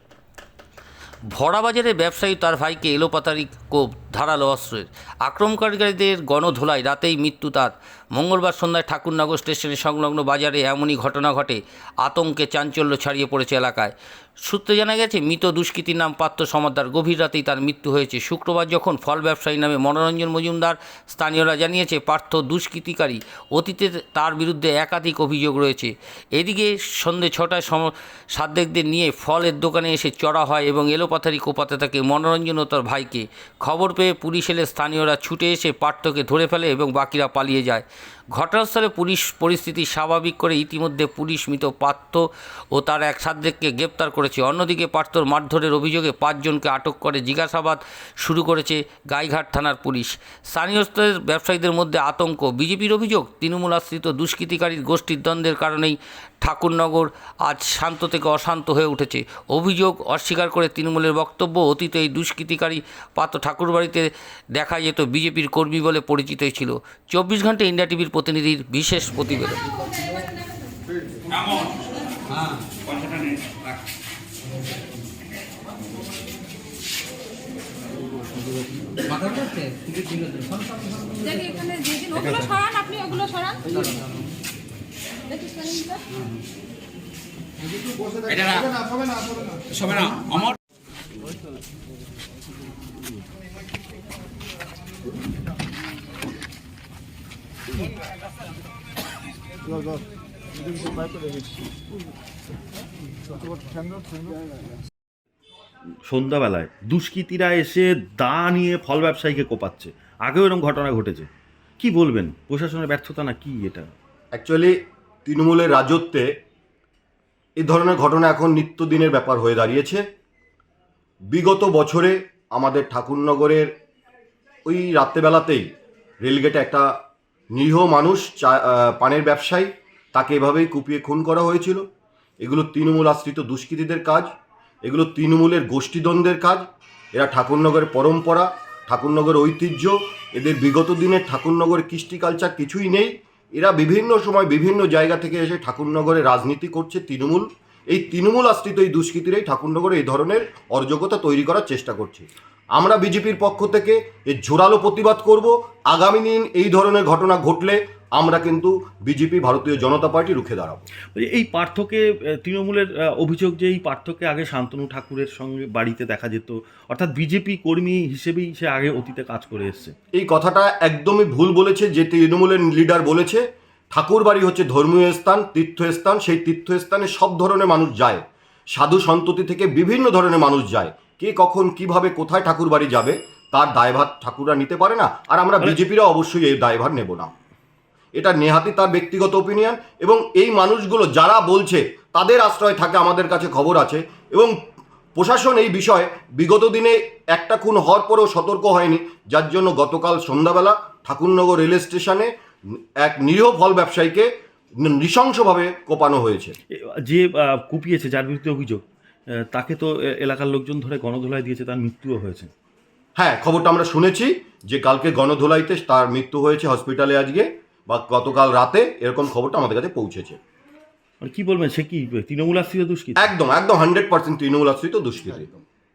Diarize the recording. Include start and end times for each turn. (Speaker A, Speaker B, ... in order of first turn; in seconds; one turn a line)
Speaker A: 1.3-13.9
Speaker A: 14.4-69.7
Speaker B: 81.2-83.7
Speaker B: 85.3-86.0
Speaker C: 106.1-111.3
Speaker C: 111.8-113.9
Speaker D: 114.4-114.8
Speaker D: 115.3-116.3
Speaker D: 117.6-120.0
Speaker D: 121.3-123.7
Speaker D: 124.7-125.7
Speaker D: 126.2-126.9
Speaker D: 127.5-131.8
Speaker D: 132.4-134.3
Speaker D: 134.8-160.8
Speaker C: 161.1-169.9
Speaker D: 170.2-178.2
Speaker D: 178.7-187.3
Speaker D: 188.2-194.5
Speaker D: 195.2-202.3
Speaker D: 203.0-204.3
Speaker D: 204.8-206.6
Speaker C: 206.8-208.9
Speaker C: 209.5-212.5
Speaker D: 213.2-220.4
Speaker C: 221.2-223.3
Speaker D: 223.2-225.6